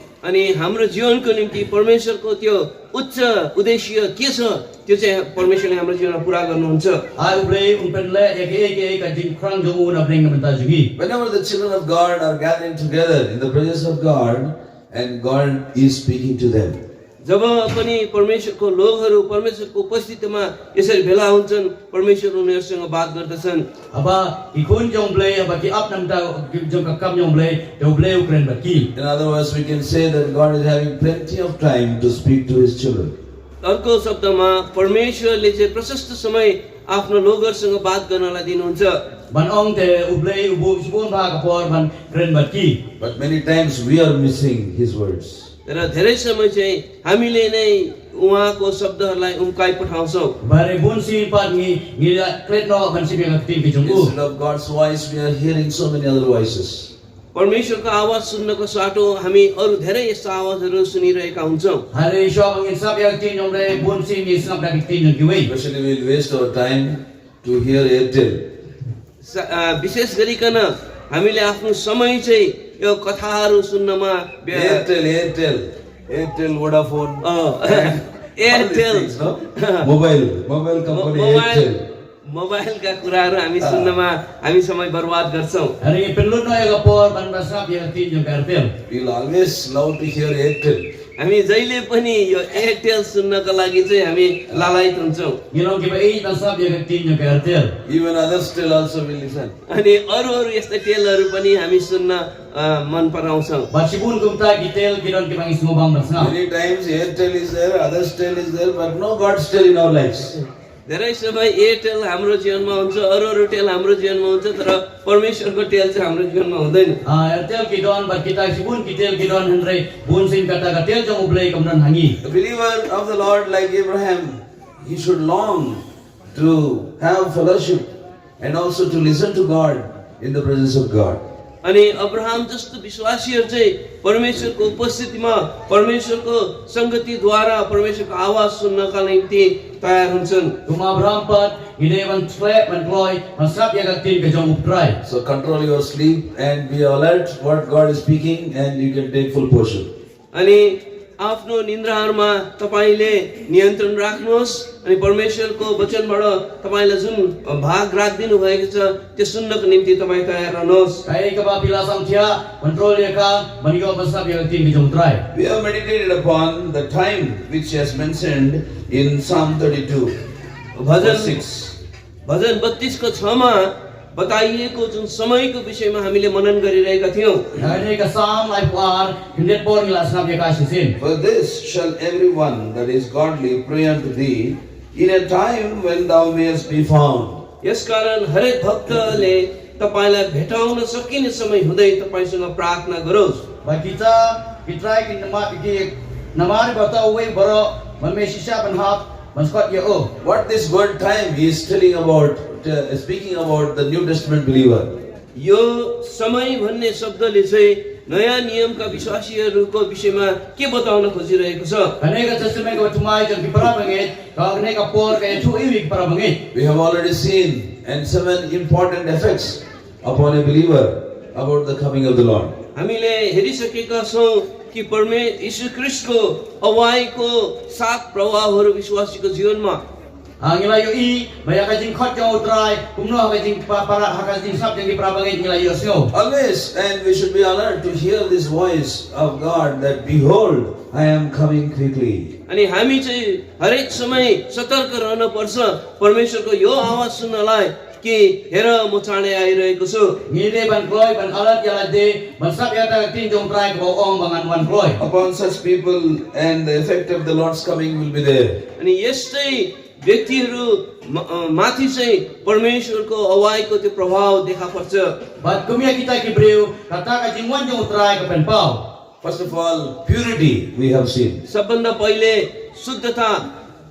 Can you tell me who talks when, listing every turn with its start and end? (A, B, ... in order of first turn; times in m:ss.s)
0:00.2-0:07.0 A
0:07.2-0:10.9 B
0:11.0-0:16.8 C
0:17.2-0:23.7 A
0:23.9-0:28.9 B
0:29.0-0:33.2 C
0:33.6-0:39.0 A
0:39.3-0:42.8 B
0:43.0-0:45.5 C
0:45.7-0:50.4 A
0:50.4-0:54.1 B
0:53.8-0:56.9 C
0:57.3-1:01.8 A
1:01.9-1:05.5 B
1:05.4-1:08.4 C
1:09.2-1:14.8 A
1:14.5-1:21.8 C
1:17.2-1:19.9 A
1:20.9-1:21.7 A
1:22.3-1:25.8 A
1:23.6-1:23.9 C
1:25.8-1:28.7 B
1:28.9-1:30.9 C
1:31.2-1:35.4 A
1:35.5-1:37.8 B
1:37.8-1:39.6 C
1:39.7-1:43.7 A
1:43.7-1:46.3 B
1:46.2-1:50.4 C
1:50.9-1:57.0 A
1:57.0-2:02.2 B
2:02.2-2:05.8 C
2:06.3-2:11.2 C
2:11.6-2:20.6 A
2:20.7-2:25.0 B
2:25.0-2:29.9 C
2:30.3-2:41.0 A
2:41.1-2:45.2 B
2:45.3-2:50.2 C
2:50.8-2:51.4 A
2:51.0-2:51.7 C
2:52.3-2:57.5 A
2:57.6-3:01.0 B
3:01.0-3:07.4 C
3:07.6-3:13.4 A
3:13.6-3:20.1 B
3:20.2-3:24.9 C
3:25.4-3:32.0 A
3:32.0-3:36.4 B
3:36.5-3:42.6 C
3:42.8-3:49.8 A
3:50.4-3:56.1 B
3:56.1-4:02.3 C
4:02.5-4:10.2 A
4:10.3-4:15.0 B
4:15.0-4:18.6 C
4:18.8-4:25.2 A
4:25.4-4:28.8 B
4:29.2-4:31.4 C
4:31.5-4:33.5 A